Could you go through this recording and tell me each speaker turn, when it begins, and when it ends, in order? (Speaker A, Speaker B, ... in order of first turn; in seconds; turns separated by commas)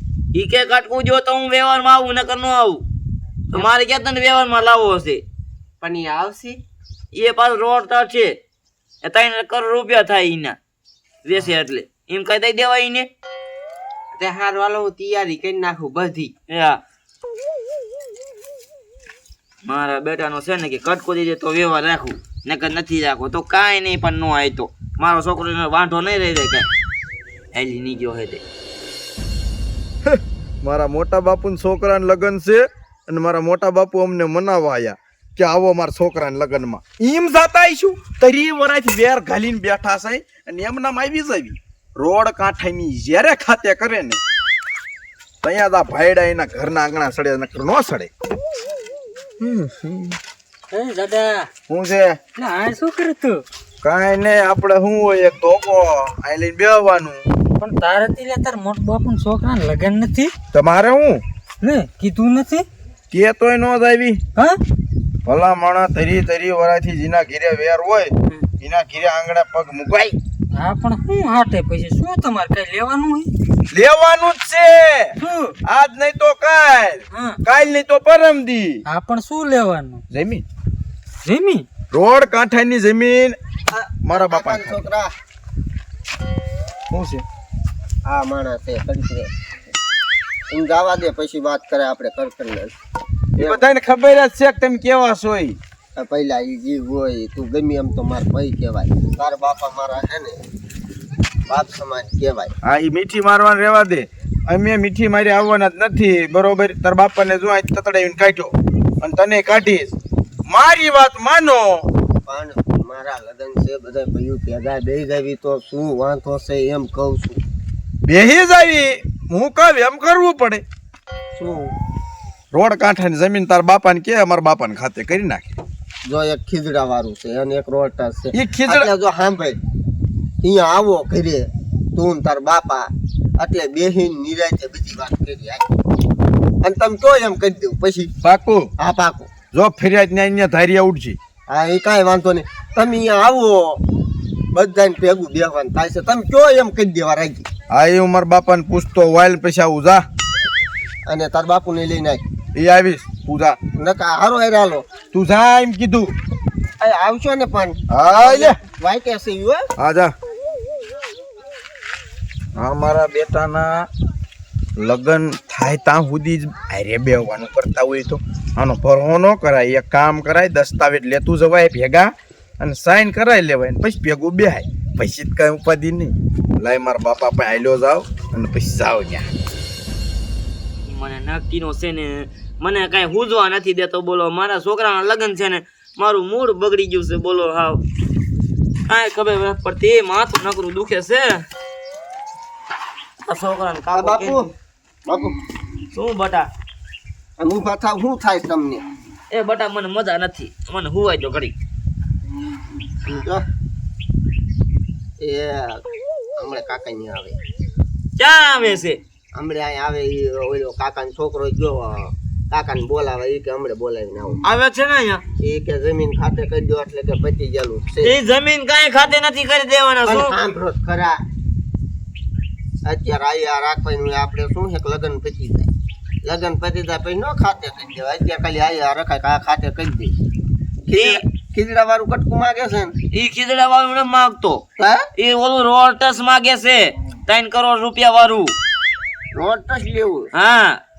Speaker A: 0.3-2.8, Speaker A: 3.5-5.2, Speaker B: 5.8-6.6, Speaker A: 7.1-8.4, Speaker A: 9.0-10.6, Speaker A: 11.3-13.1, Speaker B: 14.2-16.3, Speaker A: 16.5-16.8, Speaker A: 19.6-26.7, Speaker A: 27.5-28.4, Speaker C: 30.1-44.2, Speaker C: 45.4-48.1, Speaker C: 49.4-50.1, Speaker D: 50.7-51.5, Speaker C: 51.7-52.2, Speaker D: 52.4-53.4, Speaker C: 53.8-57.2, Speaker D: 57.6-60.3, Speaker C: 60.5-61.2, Speaker D: 61.6-62.7, Speaker C: 63.1-64.2, Speaker C: 65.3-70.2, Speaker D: 70.5-73.3, Speaker C: 73.7-78.8, Speaker D: 75.2-75.6, Speaker D: 77.1-77.4, Speaker D: 78.9-80.0, Speaker C: 80.1-80.5, Speaker D: 81.2-81.7, Speaker C: 81.9-83.4, Speaker E: 83.7-85.1, Speaker C: 84.0-84.8, Speaker C: 86.9-87.2, Speaker E: 88.1-89.3, Speaker E: 90.5-92.7, Speaker E: 93.4-93.6, Speaker C: 93.4-95.6, Speaker E: 96.0-100.4, Speaker E: 101.5-102.5, Speaker C: 102.6-110.0, Speaker C: 110.5-111.8, Speaker E: 112.2-117.4, Speaker C: 118.0-120.6, Speaker E: 121.3-121.7, Speaker C: 122.5-125.6, Speaker E: 126.1-129.6, Speaker C: 128.3-128.9, Speaker E: 130.4-135.7, Speaker E: 136.6-138.1, Speaker C: 138.2-138.7, Speaker E: 138.8-139.3, Speaker C: 139.5-141.2, Speaker E: 141.5-143.8, Speaker E: 144.5-147.5, Speaker C: 147.7-150.1, Speaker E: 151.1-152.2, Speaker C: 152.6-153.6, Speaker E: 153.8-154.9, Speaker C: 155.1-156.2, Speaker E: 156.8-159.6, Speaker C: 157.9-158.6, Speaker C: 159.8-160.1, Speaker C: 162.6-163.9, Speaker C: 164.8-179.3, Speaker A: 180.8-187.8, Speaker A: 188.9-191.4, Speaker A: 193.3-194.4, Speaker E: 193.9-194.5, Speaker E: 195.1-195.3, Speaker A: 195.9-196.5, Speaker E: 197.4-198.8, Speaker A: 199.3-201.5, Speaker E: 203.1-203.4, Speaker E: 205.2-205.8, Speaker E: 206.4-207.4, Speaker A: 208.2-209.0, Speaker E: 209.3-214.4, Speaker A: 214.4-215.2, Speaker E: 215.4-218.2, Speaker A: 218.0-220.3, Speaker E: 220.1-221.2, Speaker E: 222.8-225.7, Speaker E: 226.2-230.1, Speaker E: 230.9-232.9, Speaker A: 230.9-231.2, Speaker A: 233.1-234.6, Speaker E: 234.8-235.1, Speaker A: 235.2-238.5, Speaker E: 239.3-240.3, Speaker A: 240.3-240.8